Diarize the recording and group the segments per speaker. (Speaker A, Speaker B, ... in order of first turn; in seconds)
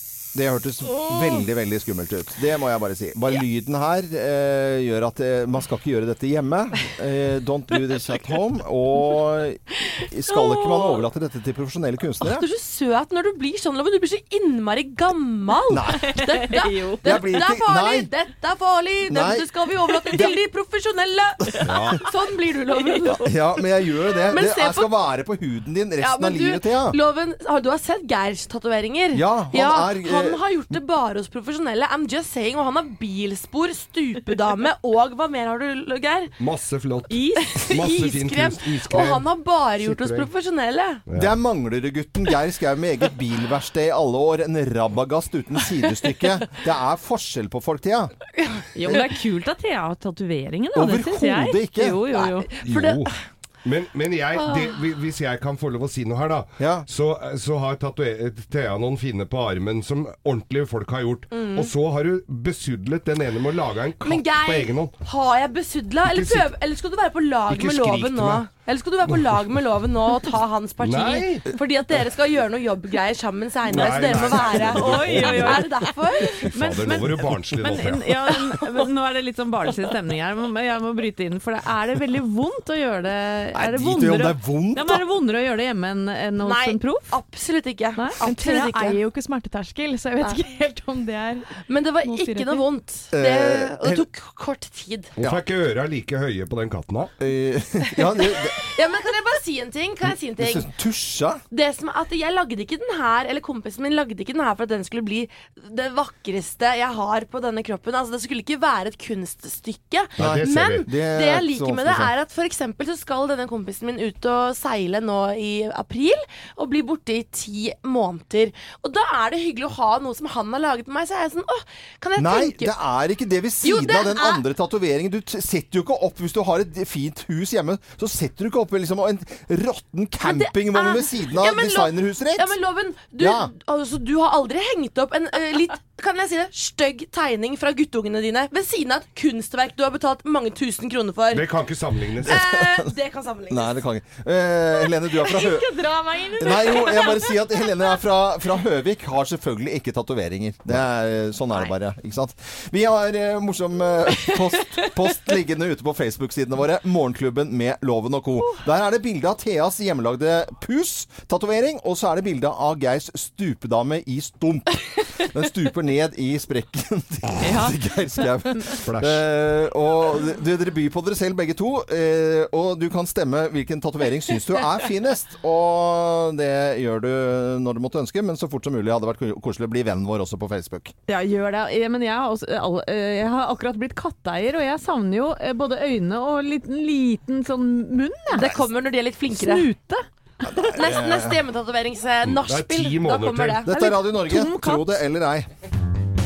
Speaker A: 0.3-12.4, 15.7-16.1, 17.0-18.1, 19.1-19.5, 20.1-20.4, 23.2-27.0, 29.1-30.4, 41.1-48.1, 50.7-52.0, 56.6-56.9, 83.5-85.0, 93.1-94.0, 97.2-98.6, 100.4-101.4, 110.2-112.1, 122.2-132.5, 133.2-133.5, 142.2-142.9, 143.5-145.7, 146.4-180.9, 190.5-191.4, 193.6-195.5
Speaker B: 10.3-11.0, 12.2-23.4, 24.2-24.9, 26.0-36.3, 37.5-41.0, 52.1-53.1, 54.4-54.7, 61.3-61.7, 64.0-77.2, 86.4-89.0, 91.6-95.1, 98.4-100.7, 101.5-122.7, 123.6-124.4, 130.2-141.4, 142.2-143.7, 145.3-147.4, 188.3-189.7, 190.6-193.8
Speaker C: 16.1-17.2, 22.9-23.2, 37.1-37.5, 48.7-52.5, 74.4-75.7, 76.5-87.1, 167.4-167.8, 181.1-188.5, 189.3-190.0, 193.7-194.8
Speaker D: 21.6-22.0, 36.4-39.3, 39.8-40.3, 41.1-41.3, 52.6-53.1, 53.6-64.9, 66.0-66.5, 67.5-68.5, 70.8-71.5, 73.7-75.8, 76.4-78.2, 95.2-97.1, 110.2-110.8, 141.3-142.4, 168.8-169.2, 192.2-193.6
Speaker E: 88.2-91.5, 92.0-92.6